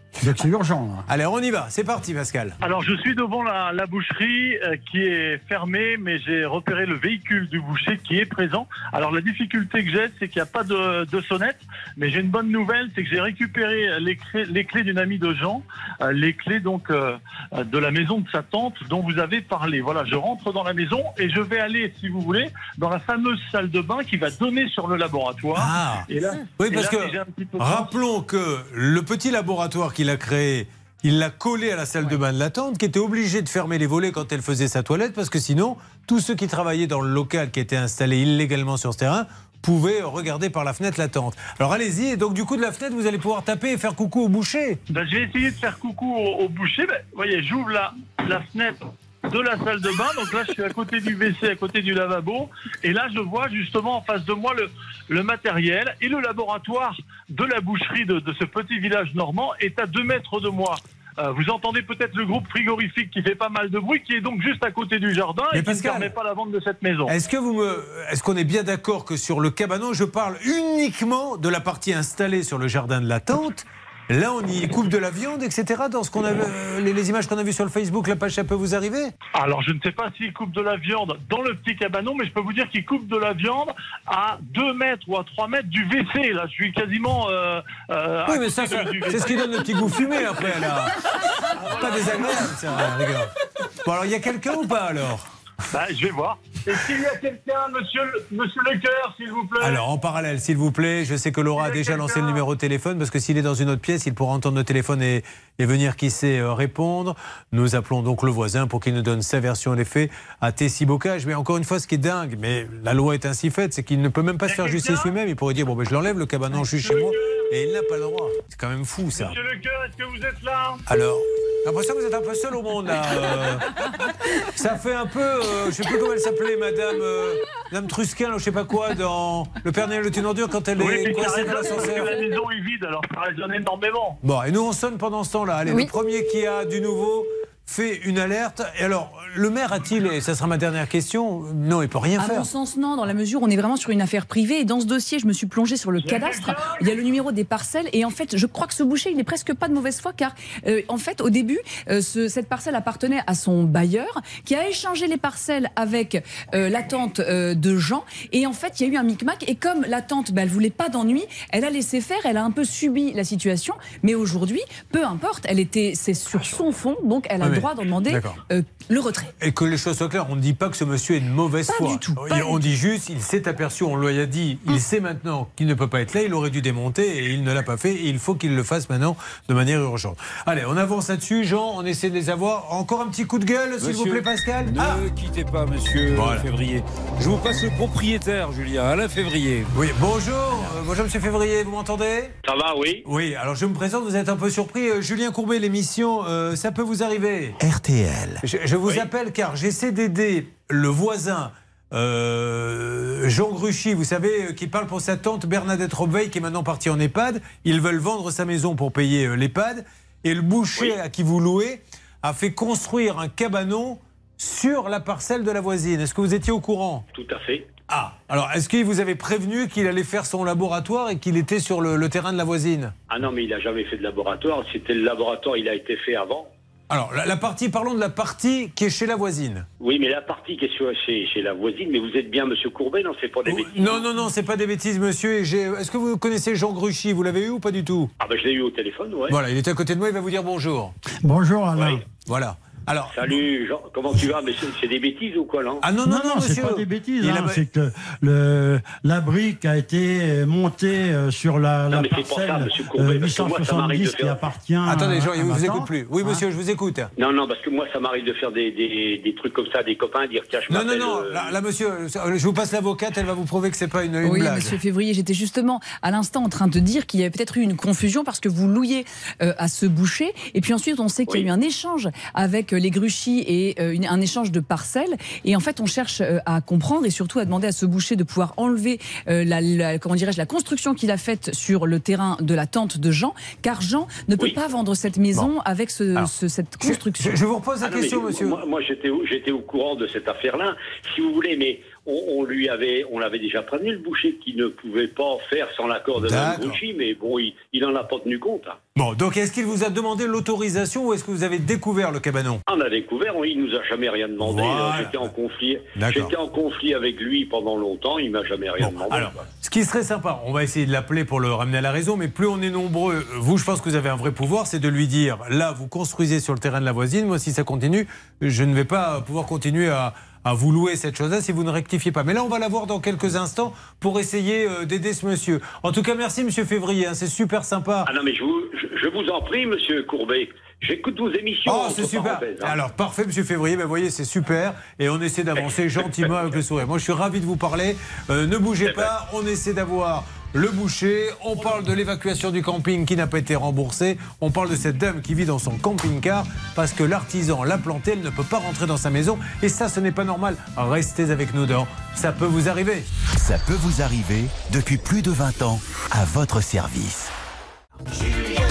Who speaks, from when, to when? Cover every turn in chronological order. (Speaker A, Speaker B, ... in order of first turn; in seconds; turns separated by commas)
Speaker A: 0.2-1.1, Speaker B: 1.1-2.6, Speaker C: 2.6-27.9, Speaker B: 25.5-26.1, Speaker B: 26.6-44.8, Speaker C: 44.9-67.1, Speaker B: 65.5-66.1, Speaker B: 67.1-79.1, Speaker C: 79.3-90.0, Speaker B: 88.3-91.0, Speaker B: 91.5-93.3, Speaker C: 91.9-92.3, Speaker B: 93.8-95.2, Speaker C: 95.7-99.8, Speaker B: 99.6-119.4, Speaker C: 101.6-102.5, Speaker C: 114.5-115.1, Speaker C: 116.7-117.4, Speaker C: 119.2-120.8, Speaker B: 120.9-123.7, Speaker B: 124.5-132.2, Speaker C: 130.8-134.2, Speaker B: 134.2-142.5, Speaker D: 142.2-169.3, Speaker C: 146.0-146.8, Speaker B: 167.4-168.4, Speaker B: 169.4-185.1, Speaker D: 171.7-172.6, Speaker E: 183.8-189.7, Speaker B: 186.1-186.5, Speaker B: 189.7-192.3, Speaker F: 192.4-193.1, Speaker B: 193.1-197.6, Speaker G: 197.6-198.4, Speaker B: 198.4-217.1, Speaker F: 217.1-217.7, Speaker B: 217.9-222.9, Speaker F: 223.1-226.5, Speaker B: 226.9-229.7, Speaker F: 229.8-234.0, Speaker B: 233.5-238.1, Speaker F: 238.2-239.4, Speaker B: 239.3-240.9, Speaker A: 241.2-242.0, Speaker F: 241.8-242.0, Speaker B: 242.3-243.4, Speaker F: 243.1-245.9, Speaker B: 245.8-247.6, Speaker A: 246.0-255.9, Speaker F: 251.9-254.4, Speaker B: 254.9-257.1, Speaker F: 257.2-261.6, Speaker B: 260.7-264.8, Speaker D: 264.2-287.4, Speaker B: 286.8-288.6, Speaker F: 287.8-298.8, Speaker B: 296.2-296.8, Speaker B: 299.0-302.6, Speaker F: 302.7-309.3, Speaker B: 304.4-305.3, Speaker B: 306.0-306.3, Speaker B: 308.8-328.1, Speaker F: 328.1-332.8, Speaker B: 331.7-353.1, Speaker F: 335.6-336.3, Speaker F: 338.8-339.1, Speaker G: 353.4-357.3